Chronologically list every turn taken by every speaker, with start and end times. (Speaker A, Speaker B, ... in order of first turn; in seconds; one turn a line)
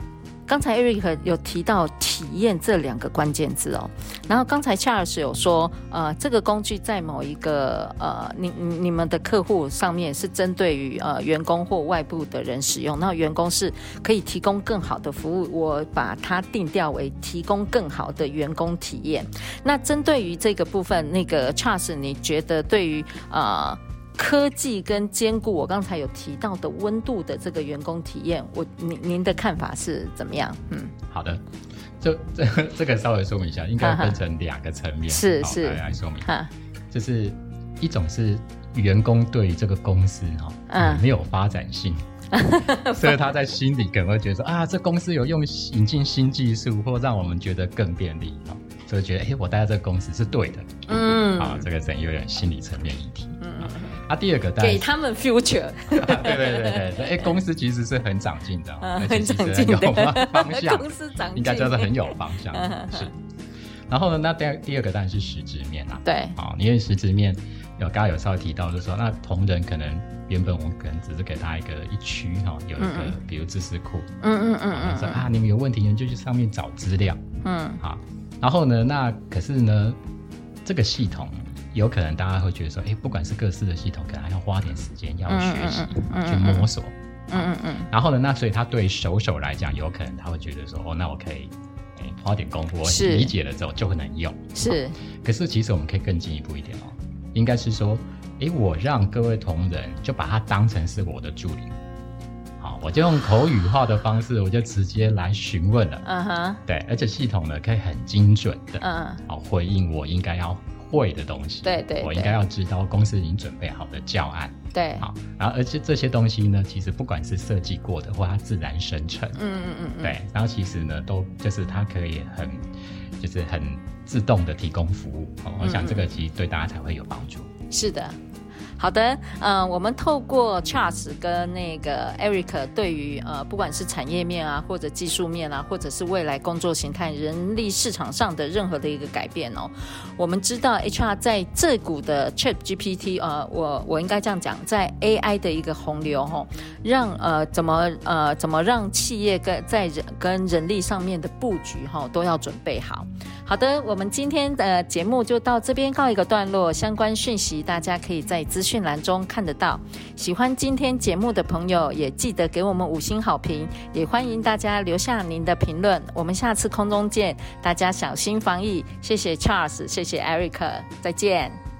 Speaker A: 0.5-30.9
Speaker B: 31.1-31.4
Speaker B: 32.0-36.3
Speaker A: 33.8-34.2
Speaker A: 35.1-36.5
Speaker B: 36.9-42.0
Speaker A: 40.7-41.0
Speaker A: 42.3-43.1
Speaker B: 42.7-54.9
Speaker A: 50.9-51.6
Speaker A: 53.4-54.0
Speaker A: 54.6-57.2
Speaker B: 55.9-63.1
Speaker A: 58.8-63.1
Speaker B: 63.9-74.1
Speaker A: 66.0-66.3
Speaker A: 72.8-73.1
Speaker A: 74.2-75.3
Speaker B: 74.7-77.2
Speaker A: 77.4-77.8
Speaker B: 77.8-80.0
Speaker B: 80.6-94.4
Speaker A: 85.3-86.7
Speaker A: 87.3-87.9
Speaker A: 92.8-93.3
Speaker A: 94.5-95.0
Speaker B: 95.2-101.7
Speaker B: 102.6-106.0
Speaker A: 106.0-106.6
Speaker B: 106.7-119.4
Speaker A: 108.8-109.2
Speaker A: 111.6-112.3
Speaker A: 114.7-115.1
Speaker A: 119.3-120.2
Speaker B: 120.0-122.7
Speaker B: 123.2-127.5
Speaker A: 125.6-126.0
Speaker A: 127.7-128.2
Speaker A: 128.8-171.6